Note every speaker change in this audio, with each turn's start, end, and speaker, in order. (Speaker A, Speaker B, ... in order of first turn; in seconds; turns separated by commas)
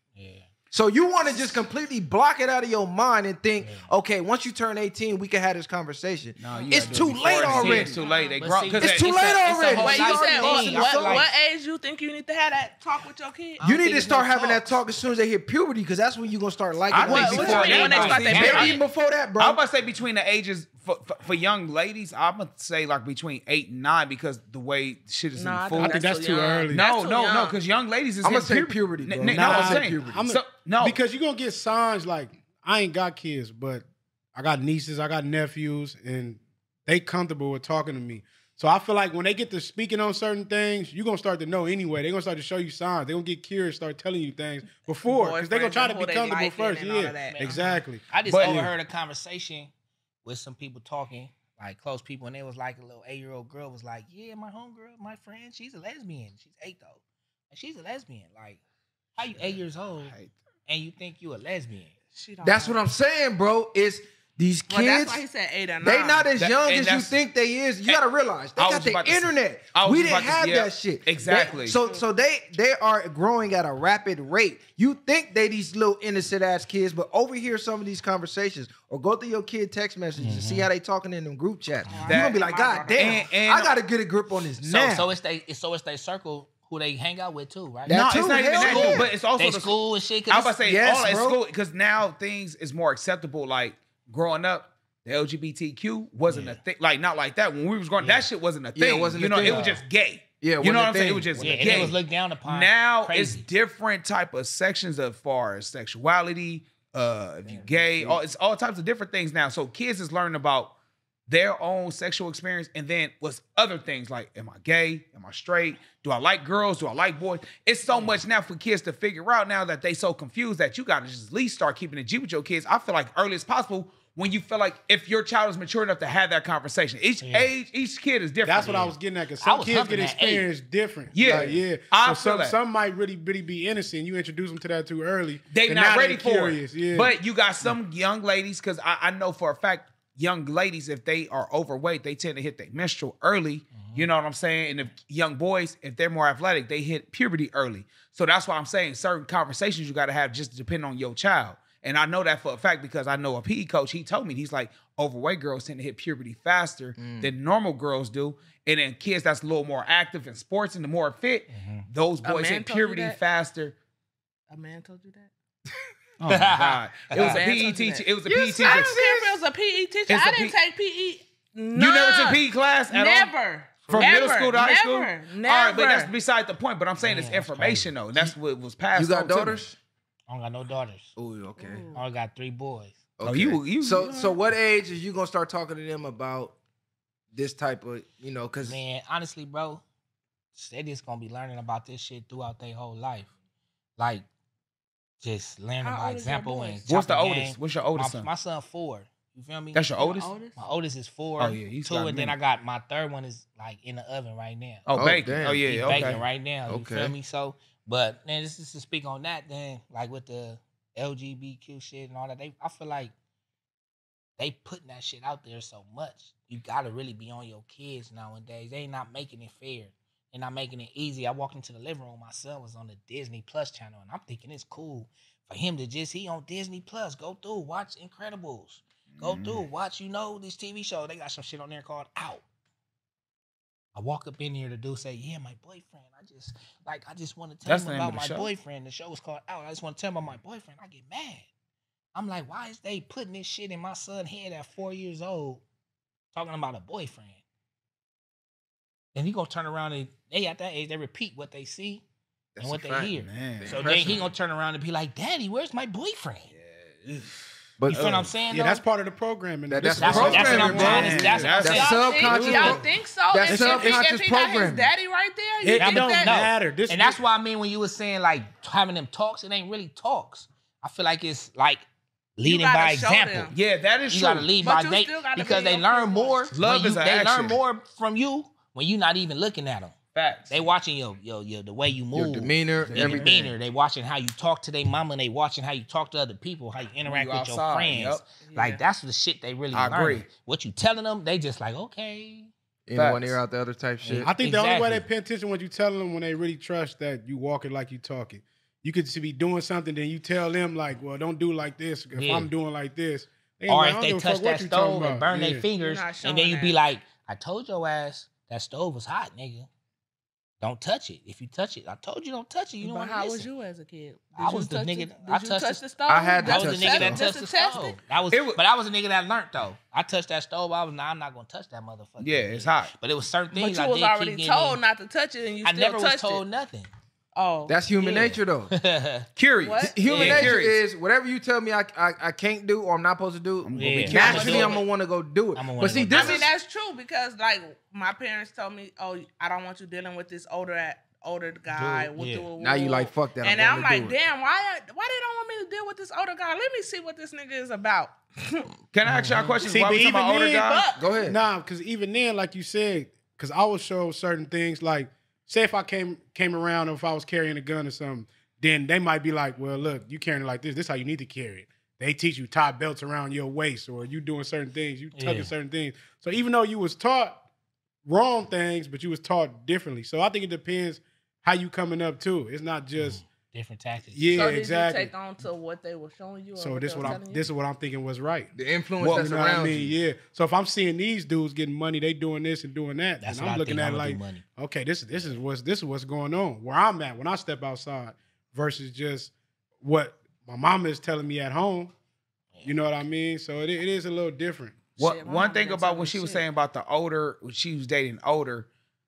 Speaker A: 0.2-0.5, Speaker B: 0.7-7.9, Speaker A: 3.6-3.9, Speaker C: 6.4-9.3, Speaker A: 6.8-11.3, Speaker D: 7.9-8.4, Speaker B: 8.8-11.3, Speaker D: 9.8-13.6, Speaker A: 13.6-14.8, Speaker B: 13.6-19.6, Speaker C: 16.9-18.8, Speaker A: 17.0-18.8, Speaker D: 17.1-18.8, Speaker C: 19.4-26.0, Speaker D: 25.4-27.6, Speaker E: 25.8-26.8, Speaker C: 26.7-31.0, Speaker B: 28.2-30.3, Speaker E: 29.3-33.8, Speaker E: 34.4-48.7, Speaker D: 45.0-47.4, Speaker A: 47.3-49.7, Speaker C: 48.3-48.6, Speaker A: 50.2-57.0, Speaker A: 57.5-58.6, Speaker A: 59.2-60.1, Speaker C: 60.0-60.3, Speaker A: 60.7-61.9, Speaker D: 62.1-62.8, Speaker B: 62.4-65.2, Speaker D: 64.7-66.3, Speaker B: 65.8-85.1, Speaker C: 66.4-67.2, Speaker C: 68.6-71.8, Speaker D: 71.3-72.0, Speaker A: 80.2-80.7, Speaker D: 81.9-83.3, Speaker C: 82.1-82.4, Speaker C: 82.9-83.7, Speaker A: 84.7-90.5, Speaker B: 87.9-89.1, Speaker C: 87.9-110.7, Speaker B: 90.6-91.4, Speaker A: 96.3-96.6, Speaker A: 98.0-98.3, Speaker B: 98.8-99.8, Speaker A: 99.4-99.8, Speaker B: 100.4-101.9, Speaker A: 101.4-103.5, Speaker B: 107.5-108.2, Speaker C: 111.3-128.9, Speaker A: 127.2-127.5, Speaker E: 128.4-137.1, Speaker A: 128.6-130.5, Speaker C: 131.1-132.6, Speaker B: 131.2-131.6, Speaker C: 135.5-163.8, Speaker A: 143.8-144.1, Speaker B: 157.0-157.3, Speaker A: 161.5-161.9, Speaker D: 162.2-163.2, Speaker D: 164.5-165.3, Speaker C: 166.2-169.0, Speaker A: 166.2-167.4, Speaker D: 167.1-168.1, Speaker B: 168.3-169.4, Speaker D: 168.6-176.1, Speaker C: 170.1-170.6, Speaker C: 171.8-173.3, Speaker B: 173.9-174.2, Speaker C: 173.9-179.6, Speaker A: 177.0-177.9, Speaker B: 178.9-179.8, Speaker A: 180.3-181.1, Speaker B: 181.2-181.8, Speaker D: 181.6-182.0, Speaker A: 181.9-182.9, Speaker B: 183.2-186.6, Speaker C: 183.2-184.3, Speaker B: 187.3-188.8, Speaker A: 188.6-189.8, Speaker A: 190.6-193.3, Speaker A: 194.0-194.3, Speaker A: 195.2-199.8, Speaker D: 195.8-196.9, Speaker C: 196.9-198.3, Speaker C: 199.7-200.3, Speaker D: 200.0-200.6, Speaker A: 200.6-204.9, Speaker C: 201.4-202.3, Speaker C: 204.9-206.2, Speaker B: 204.9-207.1, Speaker A: 205.7-213.1, Speaker A: 214.4-232.4, Speaker C: 229.2-229.6, Speaker A: 233.9-241.4, Speaker C: 237.7-238.5, Speaker A: 242.2-245.6, Speaker A: 246.3-247.4, Speaker A: 249.2-252.0, Speaker B: 252.6-254.3, Speaker A: 252.6-256.5, Speaker C: 253.1-253.9, Speaker C: 256.5-258.3, Speaker B: 257.8-258.1, Speaker A: 257.9-258.8, Speaker E: 258.5-261.6, Speaker B: 259.7-264.9, Speaker A: 260.0-262.8, Speaker C: 260.4-262.1, Speaker D: 261.7-266.3, Speaker E: 262.3-262.7, Speaker E: 263.5-264.1, Speaker E: 265.6-267.2, Speaker A: 265.8-271.9, Speaker A: 272.4-273.5, Speaker D: 272.4-273.6, Speaker C: 273.5-274.5, Speaker A: 274.1-280.0, Speaker D: 274.6-276.5, Speaker C: 276.5-277.6, Speaker C: 280.1-280.6, Speaker A: 280.5-292.5, Speaker B: 282.1-283.5, Speaker C: 282.9-283.2, Speaker C: 287.1-288.2, Speaker D: 288.4-288.8, Speaker C: 289.7-290.3, Speaker B: 292.9-294.3, Speaker C: 292.9-293.4, Speaker A: 294.0-295.1, Speaker E: 294.2-305.7, Speaker A: 302.1-302.5, Speaker A: 303.7-309.7, Speaker D: 305.8-306.8, Speaker A: 310.6-313.5, Speaker D: 312.8-318.0, Speaker A: 314.4-315.8, Speaker B: 316.1-317.2, Speaker A: 316.4-324.8, Speaker C: 318.3-318.6, Speaker C: 322.2-322.9, Speaker D: 323.5-326.4, Speaker A: 325.6-326.9, Speaker D: 327.4-328.3, Speaker B: 327.7-328.7, Speaker A: 328.0-329.3, Speaker C: 329.4-330.8, Speaker D: 329.6-330.0, Speaker B: 329.8-336.5, Speaker A: 330.1-330.6, Speaker C: 333.6-334.8, Speaker A: 333.8-334.8, Speaker D: 334.4-334.8, Speaker A: 335.6-336.5, Speaker D: 336.1-348.7, Speaker A: 341.7-342.5, Speaker B: 342.6-344.2, Speaker C: 348.9-350.9, Speaker A: 349.0-349.6, Speaker E: 349.7-350.7, Speaker D: 350.6-351.1, Speaker B: 351.0-351.4, Speaker E: 351.2-367.4, Speaker A: 365.2-365.5, Speaker E: 368.1-373.2, Speaker A: 373.0-374.5, Speaker E: 374.1-375.1, Speaker D: 374.3-377.5, Speaker E: 376.6-391.9, Speaker B: 378.6-380.0, Speaker A: 383.2-384.4, Speaker A: 385.1-385.4, Speaker E: 392.6-394.9, Speaker D: 395.0-396.4, Speaker C: 395.0-398.7